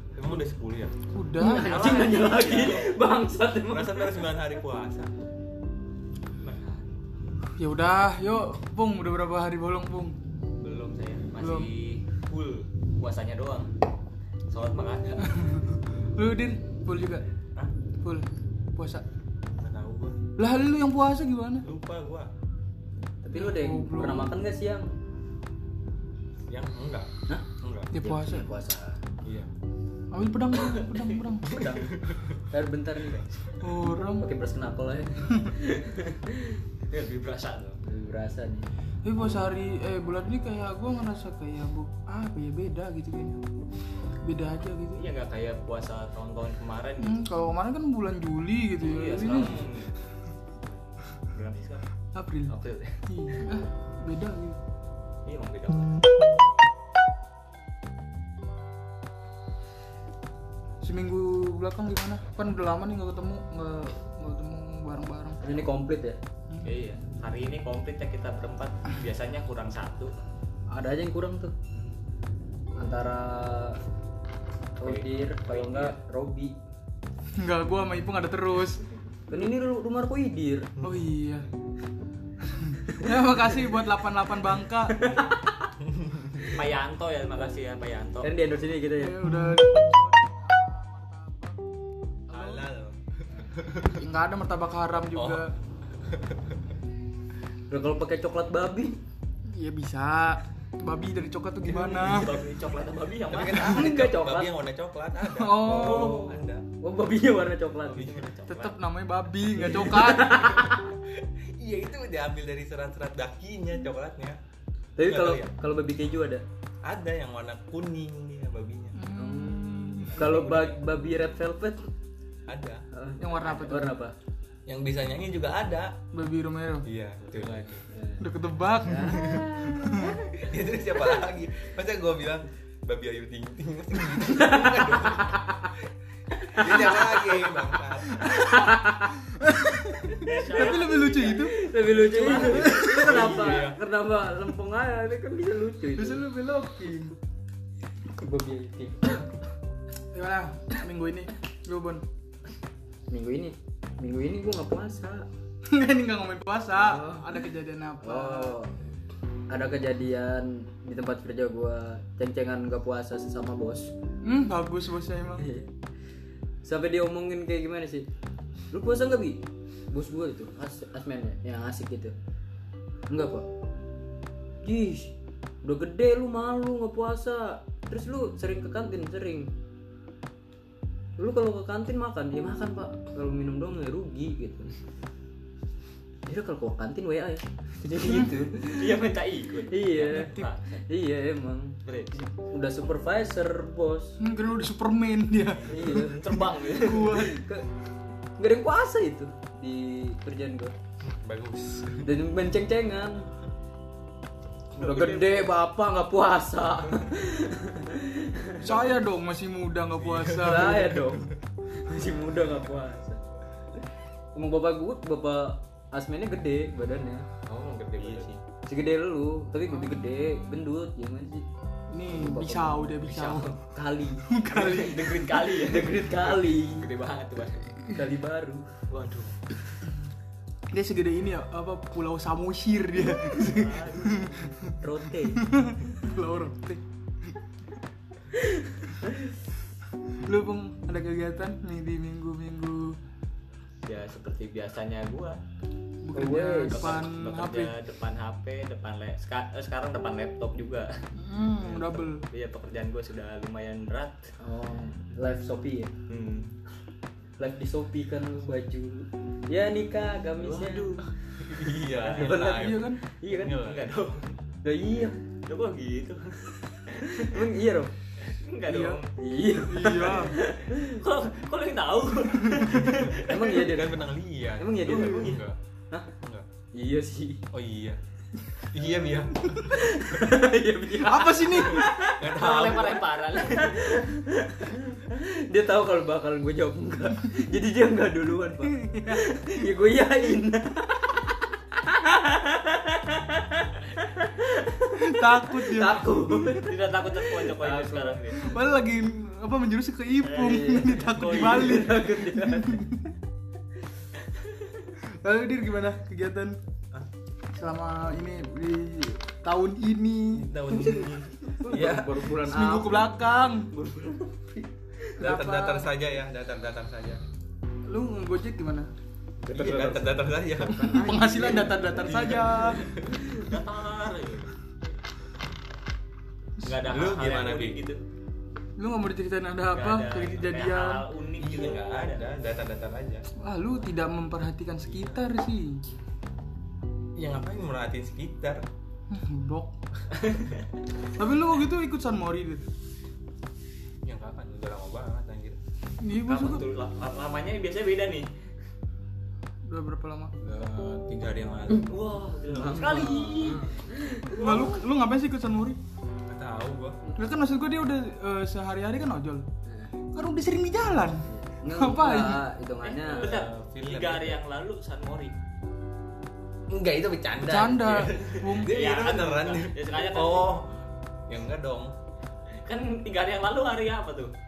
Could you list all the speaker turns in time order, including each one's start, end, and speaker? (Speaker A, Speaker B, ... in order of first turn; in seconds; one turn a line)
Speaker A: 0.1-0.9
Speaker B: 1.1-2.1
Speaker C: 1.4-4.3
Speaker D: 1.4-2.9
Speaker A: 3.7-5.1
Speaker D: 6.4-6.9
Speaker B: 7.6-10.2
Speaker D: 10.6-13.7
Speaker B: 11.4-11.7
Speaker D: 14.5-15.3
Speaker B: 15.2-17.2
Speaker B: 18.0-19.0
Speaker A: 19.6-20.1
Speaker B: 20.4-21.6
Speaker A: 21.6-22.3
Speaker C: 23.2-24.9
Speaker B: 23.3-24.4
Speaker A: 26.5-27.9
Speaker C: 27.3-29.0
Speaker B: 27.9-28.5
Speaker A: 29.2-29.5
Speaker B: 30.1-31.6
Speaker D: 30.6-31.2
Speaker A: 31.5-32.4
Speaker C: 31.6-31.9
Speaker C: 32.4-33.3
Speaker B: 33.6-34.3
Speaker C: 34.2-36.6
Speaker D: 36.9-37.8
Speaker C: 37.8-38.7
Speaker B: 39.0-43.4
Speaker B: 44.2-45.0
Speaker D: 44.9-47.2
Speaker B: 47.0-49.7
Speaker D: 48.8-49.9
Speaker D: 51.3-51.9
Speaker B: 52.1-52.5
Speaker D: 52.5-53.5
Speaker B: 53.1-54.6
Speaker D: 55.2-56.0
Speaker B: 60.8-65.6
Speaker C: 65.4-66.2
Speaker D: 66.6-70.1
Speaker C: 70.7-71.5
Speaker C: 72.8-73.8
Speaker C: 74.8-76.5
Speaker D: 74.8-75.9
Speaker B: 77.4-78.8
Speaker C: 79.3-80.7
Speaker A: 80.8-81.1
Speaker B: 80.8-81.5
Speaker B: 82.5-85.2
Speaker C: 84.9-85.7
Speaker A: 85.8-86.5
Speaker D: 86.5-88.3
Speaker C: 88.2-89.2
Speaker B: 89.0-91.6
Speaker A: 92.3-94.0
Speaker B: 92.3-92.6
Speaker B: 94.0-95.5
Speaker A: 95.1-95.5
Speaker A: 96.0-96.5
Speaker C: 97.7-99.0
Speaker B: 99.4-102.4
Speaker D: 101.6-103.9
Speaker A: 103.3-106.7
Speaker C: 103.5-104.5
Speaker B: 105.2-106.3
Speaker C: 105.8-108.2
Speaker D: 107.8-108.8
Speaker B: 108.4-110.7
Speaker C: 109.5-110.9
Speaker A: 110.8-114.4
Speaker C: 115.0-116.4
Speaker A: 115.0-115.5
Speaker A: 116.8-119.0
Speaker B: 118.9-120.2
Speaker C: 119.1-121.9
Speaker D: 120.1-120.8
Speaker A: 122.5-122.8
Speaker C: 122.9-124.1
Speaker B: 123.2-124.0
Speaker A: 124.7-126.0
Speaker B: 126.1-126.9
Speaker A: 126.8-127.8
Speaker D: 127.2-127.9
Speaker C: 127.9-128.3
Speaker B: 128.2-130.2
Speaker C: 128.8-130.1
Speaker A: 129.2-129.4
Speaker A: 130.2-138.6
Speaker C: 134.2-135.7
Speaker C: 136.4-137.4
Speaker C: 138.2-139.2
Speaker B: 139.2-141.6
Speaker D: 140.1-143.6
Speaker C: 141.5-146.2
Speaker A: 142.2-143.8
Speaker B: 142.2-143.0
Speaker B: 145.9-147.2
Speaker C: 148.1-149.3
Speaker B: 150.1-152.0
Speaker C: 153.1-155.3
Speaker B: 155.7-158.6
Speaker C: 156.7-157.3
Speaker C: 158.0-158.8
Speaker C: 159.5-163.9
Speaker B: 164.2-165.5
Speaker C: 165.4-165.7
Speaker C: 166.6-168.1
Speaker C: 168.7-172.1
Speaker C: 173.1-173.5
Speaker C: 174.6-179.5
Speaker C: 181.2-184.7
Speaker C: 186.2-189.1
Speaker D: 188.6-190.8
Speaker C: 189.7-194.2
Speaker D: 191.8-192.2
Speaker B: 194.2-196.1
Speaker C: 195.7-196.3
Speaker D: 195.7-197.2
Speaker B: 196.7-197.5
Speaker C: 197.1-197.6
Speaker C: 198.4-200.7
Speaker A: 201.0-202.1
Speaker C: 202.0-203.3
Speaker C: 204.8-208.8
Speaker D: 204.8-205.5
Speaker B: 208.6-211.0
Speaker A: 210.0-210.9
Speaker C: 210.4-213.2
Speaker C: 214.3-217.2
Speaker A: 217.5-218.3
Speaker D: 217.5-218.4
Speaker C: 218.7-221.4
Speaker B: 219.7-220.4
Speaker B: 221.9-223.6
Speaker C: 222.1-223.0
Speaker D: 223.0-223.6
Speaker C: 223.7-226.9
Speaker B: 224.3-225.3
Speaker D: 224.5-227.7
Speaker C: 227.9-228.7
Speaker D: 228.9-229.3
Speaker B: 230.7-234.8
Speaker D: 233.2-234.4
Speaker C: 234.8-235.4
Speaker B: 235.3-236.8
Speaker C: 238.3-239.2
Speaker B: 240.2-243.0
Speaker D: 243.8-245.4
Speaker B: 246.0-247.7
Speaker C: 246.1-246.9
Speaker D: 246.7-250.9
Speaker B: 251.2-252.2
Speaker D: 251.6-254.3
Speaker C: 254.4-255.9
Speaker D: 256.1-256.6
Speaker C: 257.4-261.0
Speaker D: 260.4-261.1
Speaker A: 261.4-263.9
Speaker D: 261.7-262.7
Speaker C: 262.1-263.6
Speaker B: 262.4-263.0
Speaker D: 263.4-264.4
Speaker C: 264.6-265.1
Speaker D: 265.5-267.4
Speaker C: 267.0-267.9
Speaker D: 268.2-269.1
Speaker B: 268.7-269.0
Speaker C: 269.1-271.0
Speaker B: 269.6-270.4
Speaker D: 269.8-273.6
Speaker A: 272.8-275.6
Speaker C: 273.2-275.3
Speaker D: 274.8-275.4
Speaker A: 276.2-276.5
Speaker C: 276.7-277.4
Speaker A: 277.5-278.0
Speaker A: 278.7-279.7
Speaker C: 279.7-296.8
Speaker B: 280.9-281.9
Speaker A: 281.8-283.1
Speaker D: 282.2-284.0
Speaker B: 288.7-289.5
Speaker B: 294.9-296.8
Speaker D: 296.5-298.6
Speaker C: 297.4-298.2
Speaker B: 298.4-303.1
Speaker D: 300.2-302.1
Speaker C: 300.4-302.8
Speaker B: 305.2-306.6
Speaker B: 307.5-311.0
Speaker A: 310.3-312.3
Speaker C: 310.7-313.2
Speaker B: 312.4-313.7
Speaker C: 313.7-314.6
Speaker B: 315.2-315.9
Speaker A: 315.2-317.2
Speaker B: 317.9-318.9
Speaker A: 319.4-321.0
Speaker C: 319.5-322.5
Speaker B: 320.8-322.8
Speaker A: 321.9-323.3
Speaker C: 323.2-323.4
Speaker D: 323.3-324.5
Speaker D: 326.6-328.0
Speaker A: 326.8-327.8
Speaker B: 328.8-331.0
Speaker D: 329.7-332.3
Speaker A: 331.4-333.3
Speaker B: 333.4-335.8
Speaker A: 334.9-335.2
Speaker A: 337.1-338.6
Speaker B: 339.1-339.7
Speaker D: 340.1-340.7
Speaker B: 341.1-342.6
Speaker A: 344.0-345.6
Speaker B: 346.0-346.6
Speaker D: 346.1-348.3
Speaker B: 349.6-350.3
Speaker A: 350.4-351.9
Speaker D: 351.8-354.8
Speaker C: 352.5-354.7
Speaker B: 354.3-355.8
Speaker A: 356.3-357.0
Speaker B: 357.1-359.5
Speaker C: 359.6-359.9
Speaker B: 360.1-362.4
Speaker C: 361.2-363.4
Speaker D: 362.8-365.3
Speaker A: 363.2-364.4
Speaker A: 366.7-370.8
Speaker B: 367.4-368.8
Speaker D: 368.6-370.5
Speaker A: 371.3-371.9
Speaker D: 372.6-374.3